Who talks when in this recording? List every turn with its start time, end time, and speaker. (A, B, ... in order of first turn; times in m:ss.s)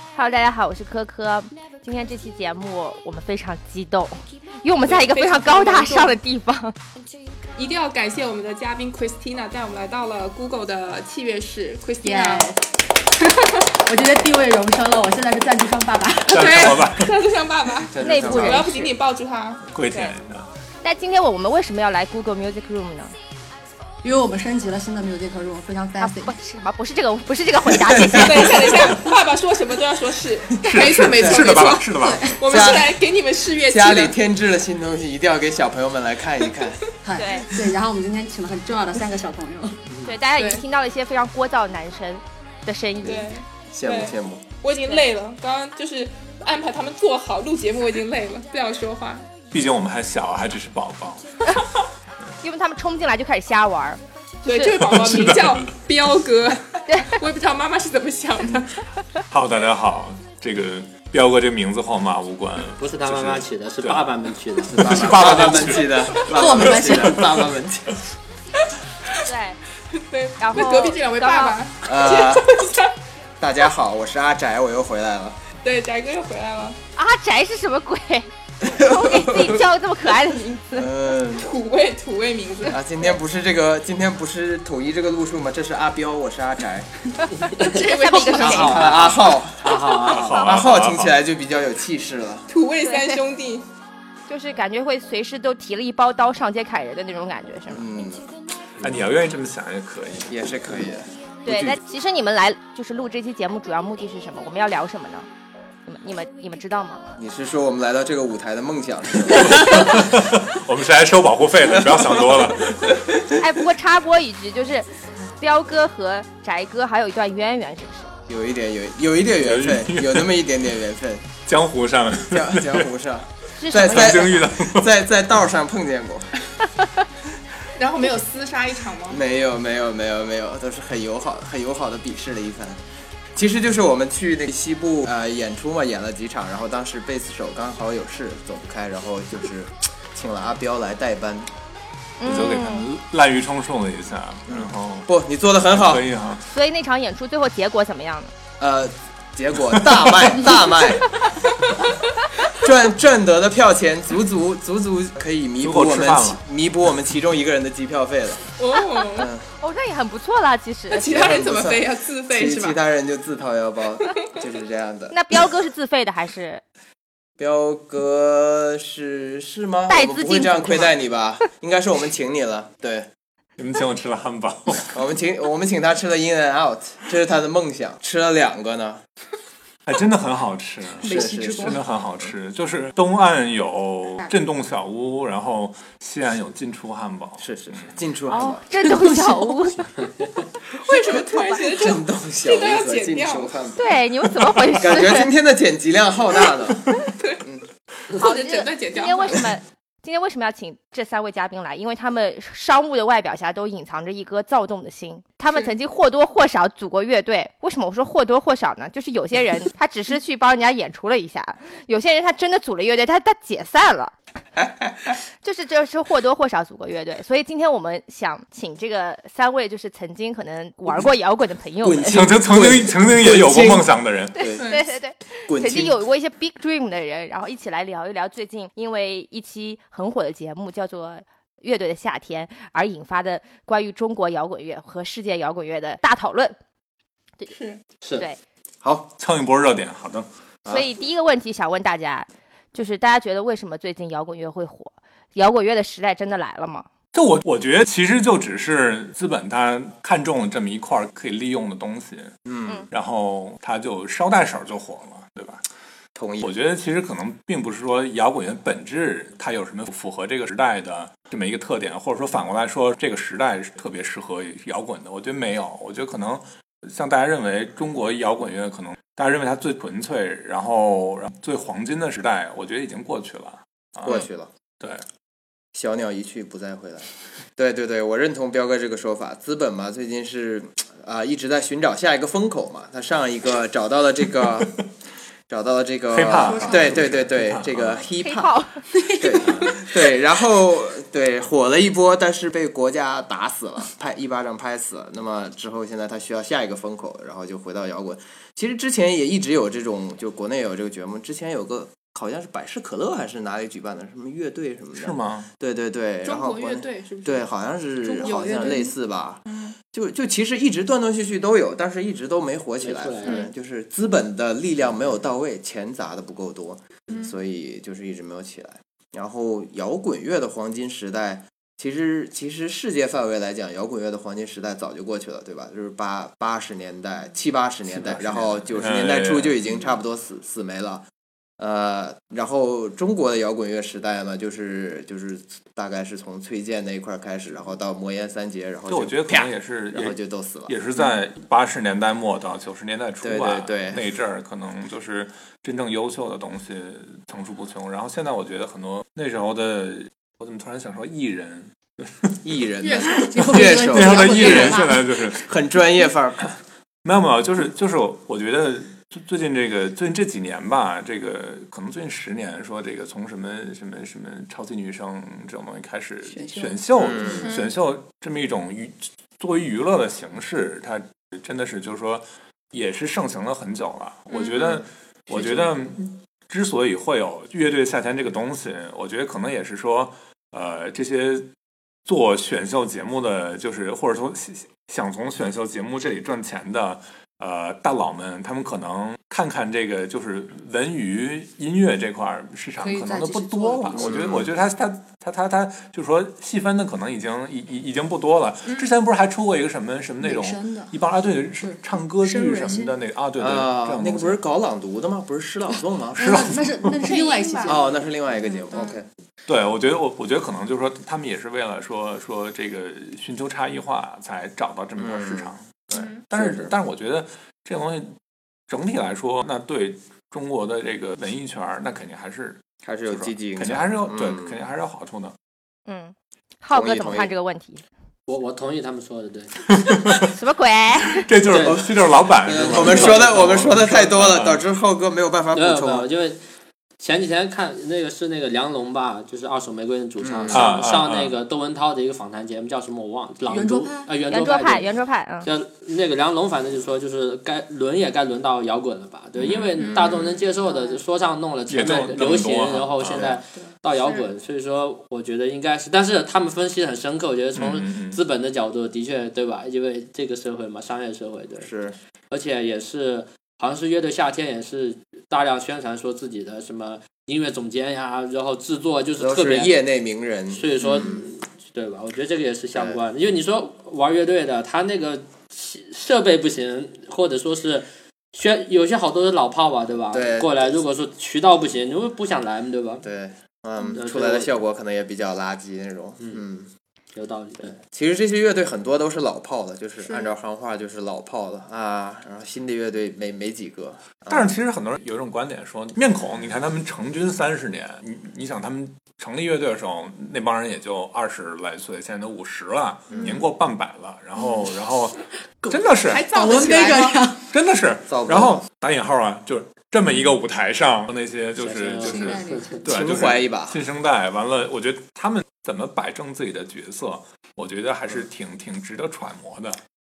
0:00.1-0:06.7 A
0:04.8-0:06.2 B
0:07.6-0:12.5 B
0:12.0-0:12.6 C
0:13.8-0:16.6 C
0:16.3-0:17.2 D
0:16.3-0:19.6 B
0:17.8-0:18.9 E
0:18.0-0:18.9 A
0:19.7-0:20.5 D
0:20.8-0:23.1 A
0:24.0-0:26.3 C
0:26.0-0:29.0 A
0:27.8-0:28.4 E
0:28.1-0:34.1 B
0:30.6-0:32.4 D
0:31.2-0:31.6 E
0:31.9-0:32.4 C
0:32.5-0:33.0 E
0:33.6-0:36.8 E
0:37.0-0:39.8 C
0:37.2-0:37.5 A
0:40.0-0:43.3 A
0:40.4-0:40.6 B
0:43.0-0:44.5 E
0:43.0-0:49.2 B
0:49.5-0:51.2 D
0:52.4-0:54.8 A
0:54.4-0:58.7 B
0:54.8-0:55.7 D
0:56.9-0:57.2 A
0:59.3-1:07.5 D
1:02.8-1:05.5 F
1:04.7-1:08.0 E
1:06.2-1:07.4 C
1:09.2-1:09.6 A
1:10.0-1:12.9 B
1:10.4-1:11.6 A
1:11.8-1:12.6 E
1:13.4-1:15.4 E
1:15.6-1:16.8 B
1:17.0-1:20.9 A
1:18.6-1:19.7 E
1:20.7-1:21.5 E
1:21.4-1:22.8 B
1:22.7-1:26.9 E
1:27.4-1:27.7 F
1:27.6-1:28.8 A
1:27.6-1:29.0 B
1:28.4-1:32.5 E
1:28.4-1:30.5 F
1:30.0-1:31.2 D
1:32.5-1:33.6 B
1:32.8-1:33.2 A
1:34.3-1:37.8 A
1:37.7-1:38.3 E
1:38.8-1:40.5 D
1:40.3-1:41.1 E
1:41.4-1:45.3 A
1:41.5-1:41.8 D
1:45.8-1:47.1 A
1:47.2-1:49.9 E
1:49.4-1:53.1 D
1:51.7-1:52.5 E
1:53.4-1:58.1 A
1:58.3-2:01.3 E
1:59.4-2:00.4 D
2:01.4-2:02.9 D
2:02.3-2:06.3 E
2:03.6-2:04.4 A
2:03.7-2:04.9 D
2:07.8-2:09.2 B
2:09.1-2:12.8 E
2:13.3-2:21.5 E
2:22.2-2:22.8 A
2:22.2-2:25.1 D
2:24.5-2:26.1 E
2:25.7-2:26.4 D
2:26.5-2:28.3 A
2:28.6-2:31.1 E
2:29.7-2:30.5 D
2:32.5-2:38.5 E
2:35.6-2:36.4 D
2:38.6-2:39.3 B
2:39.1-2:39.5 E
2:39.6-2:41.1 A
2:40.9-2:42.8 B
2:41.0-2:45.2 E
2:45.1-2:46.6 A
2:47.4-2:53.1 E
2:49.9-2:50.9 A
2:53.6-2:55.0 D
2:54.9-2:59.0 E
2:59.8-3:07.9 D
3:01.0-3:01.8 C
3:01.0-3:02.3 E
3:07.4-3:08.6 E
3:08.3-3:09.9 A
3:09.0-3:09.4 C
3:10.7-3:13.6 B
3:10.9-3:11.6 A
3:11.6-3:13.9 E
3:13.8-3:15.3 A
3:14.5-3:14.8 D
3:14.8-3:16.8 E
3:18.1-3:19.5 B
3:18.2-3:34.1 A
3:34.6-3:35.1 E
3:35.4-3:42.2 A
3:41.8-3:44.6 E
3:42.1-3:44.3 D
3:44.4-3:56.6 A
3:45.5-3:45.9 E
3:57.5-3:57.8 B
3:58.0-3:58.3 F
3:58.8-3:59.1 E
3:59.2-4:00.3 D
4:00.7-4:06.8 A
4:07.1-4:12.3 D
4:12.4-4:12.9 E
4:12.9-4:15.6 D
4:16.1-4:16.5 E
4:16.4-4:34.3 D
4:34.0-4:34.5 E
4:35.7-4:44.8 E
4:45.5-4:48.6 E
4:46.1-4:48.1 D
4:46.5-4:46.8 C
4:48.2-4:48.8 A
4:49.1-5:31.1 E
4:49.4-4:49.8 D
5:05.0-5:05.5 D
5:06.2-5:07.5 B
5:08.0-5:08.9 B
5:09.5-5:09.8 B
5:12.8-5:13.5 F
5:13.2-5:13.5 B
5:17.1-5:17.3 B
5:27.9-5:29.6 D
5:31.6-5:40.7 E
5:38.9-5:52.4 D
5:43.2-5:44.0 E
5:52.4-5:56.6 E
5:52.8-5:53.3 B
5:53.0-5:55.5 D
5:53.2-5:55.0 C
5:57.0-6:21.5 D
6:06.3-6:07.5 C
6:07.0-6:07.4 E
6:07.4-6:07.7 B
6:14.3-6:14.6 B
6:14.4-6:15.9 E
6:22.0-6:44.4 D
6:32.8-6:34.1 C
6:33.9-6:34.5 E
6:40.2-6:41.0 C
6:41.6-6:43.0 C
6:43.4-6:46.3 E
6:46.2-6:48.9 C
6:46.2-6:47.1 D
6:47.0-6:47.8 B
6:47.6-6:49.1 E
6:49.5-6:58.1 D
6:55.0-6:55.5 E
6:55.9-6:56.2 B
6:56.3-6:56.7 E
6:58.7-7:05.3 D
7:02.8-7:04.6 E
7:05.9-7:07.8 A
7:06.7-7:07.3 E
7:08.3-7:09.5 F
7:09.7-7:10.2 D
7:10.2-7:11.2 A
7:11.2-7:14.6 D
7:11.5-7:11.9 F
7:11.5-7:16.1 E
7:12.5-7:13.8 F
7:15.5-7:16.4 F
7:17.0-7:41.7 F
7:20.2-7:20.7 E
7:20.5-7:21.3 D
7:23.4-7:24.1 C
7:24.3-7:25.5 A
7:29.4-7:30.3 D
7:30.6-7:31.0 C
7:31.7-7:33.3 D
7:34.0-7:34.3 B
7:37.5-7:38.2 D
7:41.6-7:42.0 E
7:42.3-7:49.7 F
7:49.2-7:51.2 E
7:50.5-8:03.0 F
7:52.7-7:53.0 E
8:00.1-8:00.6 E
8:03.0-8:06.7 E
8:03.9-8:04.5 F
8:07.1-8:07.8 F
8:07.6-8:14.6 E
8:10.0-8:10.3 B
8:14.3-8:25.2 D
8:25.6-8:27.4 C
8:25.7-8:26.3 D
8:26.1-8:27.3 B
8:27.5-8:39.8 D
8:28.1-8:28.6 E
8:31.6-8:32.8 F
8:32.0-8:32.8 C
8:32.9-8:33.8 E